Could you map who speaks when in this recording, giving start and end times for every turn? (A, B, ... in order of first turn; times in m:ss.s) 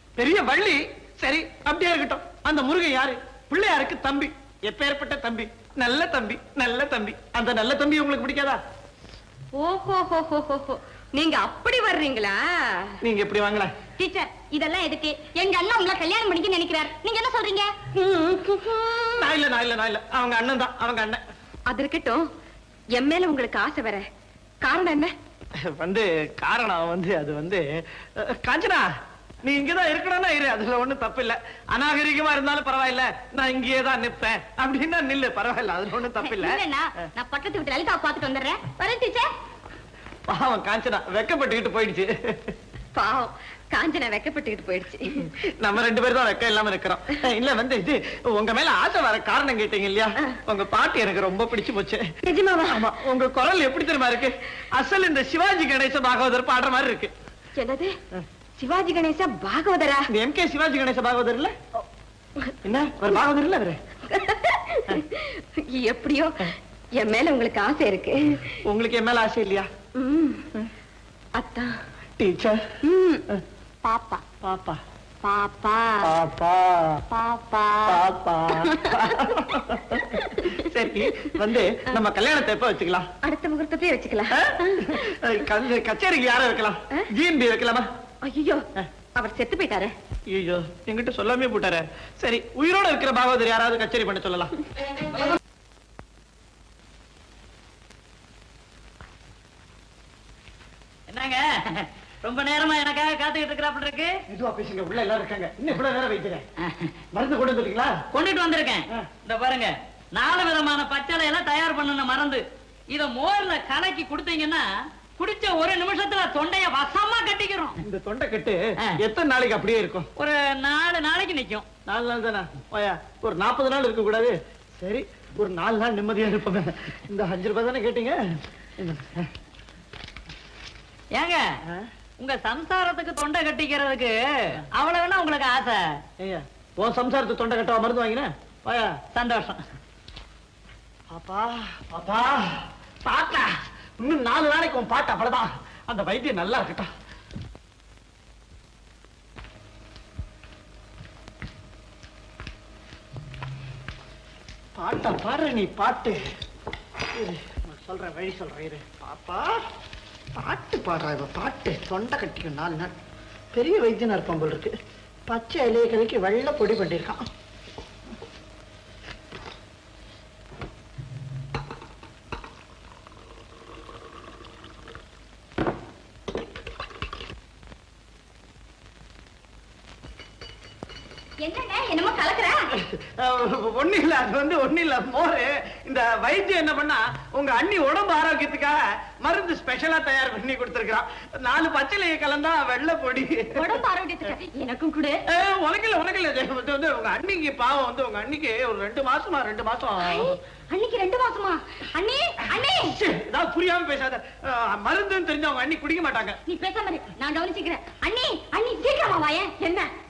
0:00.2-0:08.6 A
0:09.5-0:12.9 B
0:13.0-0:13.7 A
0:14.0-0:17.7 C
0:17.9-0:19.3 B
0:19.2-0:21.2 A
0:21.7-0:22.2 B
0:22.9-0:24.0 B
0:24.6-0:25.1 B
0:25.7-0:28.8 A
0:29.4-0:36.6 A
0:36.2-0:39.3 C
0:40.3-0:42.5 A
0:43.0-0:45.2 B
0:45.3-0:52.0 A
0:52.2-0:52.8 B
0:52.7-0:57.1 A
0:57.6-0:57.9 B
0:58.6-1:00.1 B
1:00.1-1:01.5 A
1:02.6-1:03.8 A
1:04.1-1:06.3 B
1:07.0-1:08.2 B
1:08.6-1:09.7 A
1:10.0-1:10.4 B
1:11.4-1:11.7 B
1:12.2-1:12.6 A
1:12.8-1:13.2 B
1:13.8-1:14.2 B
1:14.4-1:14.8 A
1:15.2-1:16.1 B
1:16.0-1:17.0 A
1:17.1-1:18.0 B
1:17.8-1:23.1 A
1:18.6-1:20.6 B
1:23.2-1:25.1 B
1:24.3-1:27.9 A
1:28.2-1:28.6 B
1:29.2-1:29.9 B
1:30.3-1:34.5 A
1:41.1-1:44.1 D
1:44.3-1:46.4 A
1:47.1-1:48.0 A
1:48.1-1:54.6 D
1:55.2-1:57.8 D
1:57.8-2:00.1 A
2:00.2-2:01.6 D
2:01.8-2:08.2 A
2:08.8-2:09.3 A
2:11.1-2:11.4 D
2:12.2-2:14.2 D
2:14.8-2:15.8 D
2:16.2-2:18.9 A
2:19.2-2:19.6 D
2:21.1-2:26.9 A
2:34.8-2:36.2 A
2:37.1-2:39.6 A
2:40.3-2:42.9 A
2:43.5-2:44.7 A
2:45.3-2:47.2 A
3:01.4-3:02.6 C
3:02.7-3:13.8 A
3:13.6-3:14.7 C
3:14.9-3:15.1 B
3:15.3-3:20.4 A
3:20.7-3:22.9 C
3:22.8-3:26.4 A
3:26.5-3:29.5 C
3:29.6-3:29.9 B